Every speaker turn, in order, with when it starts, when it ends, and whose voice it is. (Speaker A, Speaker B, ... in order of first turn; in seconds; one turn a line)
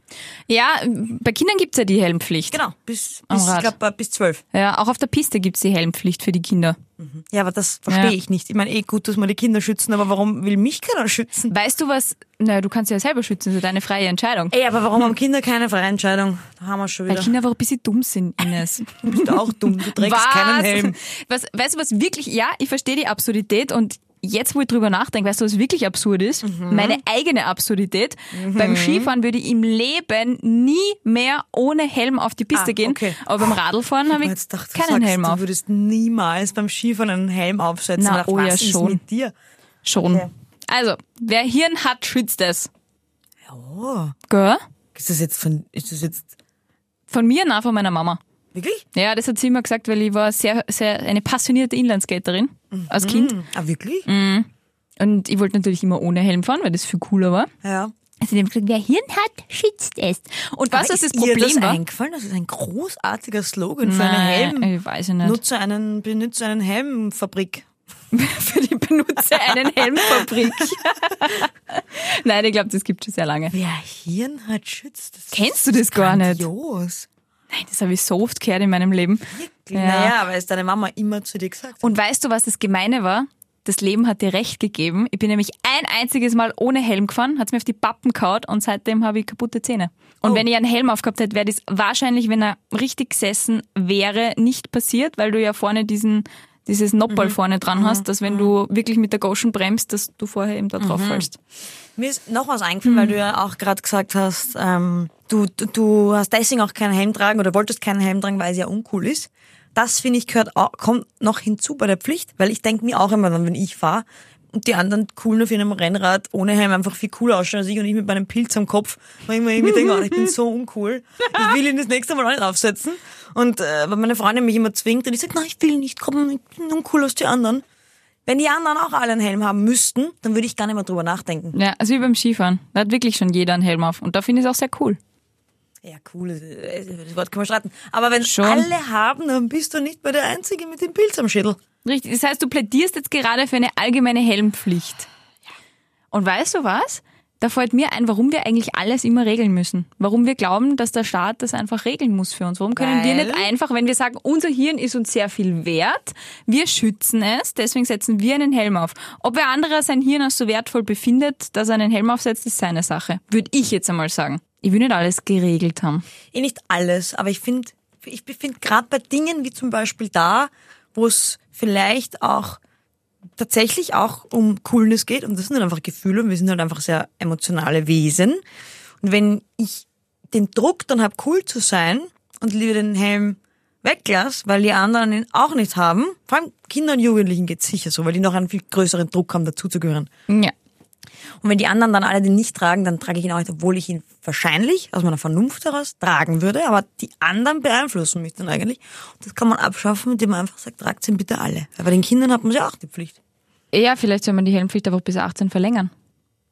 Speaker A: 0.5-2.6
Speaker B: 2.5-4.4
Speaker A: 3.3-3.7
Speaker A: 4.5-6.8
Speaker B: 7.0-11.5
Speaker A: 7.9-8.1
Speaker A: 11.5-14.5
Speaker B: 14.5-17.3
Speaker A: 17.1-35.4
Speaker B: 19.0-21.0
Speaker B: 26.4-27.0
Speaker B: 28.3-29.1
Speaker B: 32.5-33.2
Speaker B: 34.2-39.3
Speaker A: 38.0-39.0
Speaker A: 39.8-42.7
Speaker B: 40.0-40.3
Speaker B: 43.5-44.1
Speaker A: 44.3-44.6
Speaker B: 44.9-46.3
Speaker A: 47.1-48.2
Speaker B: 48.5-48.8
Speaker A: 48.9-53.4
Speaker B: 52.7-54.1
Speaker A: 54.0-54.5
Speaker A: 55.0-57.5
Speaker B: 57.6-57.9
Speaker A: 58.2-61.8
Speaker B: 60.7-64.7
Speaker A: 63.8-65.4
Speaker B: 65.2-67.7
Speaker A: 68.1-73.5
Speaker B: 69.5-70.8
Speaker B: 73.5-77.1
Speaker A: 75.3-76.5
Speaker A: 77.5-80.1
Speaker B: 79.3-81.9
Speaker A: 81.8-101.3
Speaker B: 97.1-98.5
Speaker B: 100.8-101.3
Speaker B: 102.0-127.6
Speaker A: 102.9-103.1
Speaker A: 119.8-120.1
Speaker B: 128.2-131.6
Speaker A: 131.5-135.0
Speaker B: 135.8-141.6
Speaker A: 138.2-138.7
Speaker A: 141.8-145.1
Speaker A: 146.1-166.0
Speaker B: 152.7-153.5
Speaker B: 166.3-172.6
Speaker B: 173.4-178.4
Speaker B: 179.0-190.1
Speaker A: 190.3-190.5
Speaker B: 191.4-203.2
Speaker A: 203.7-205.9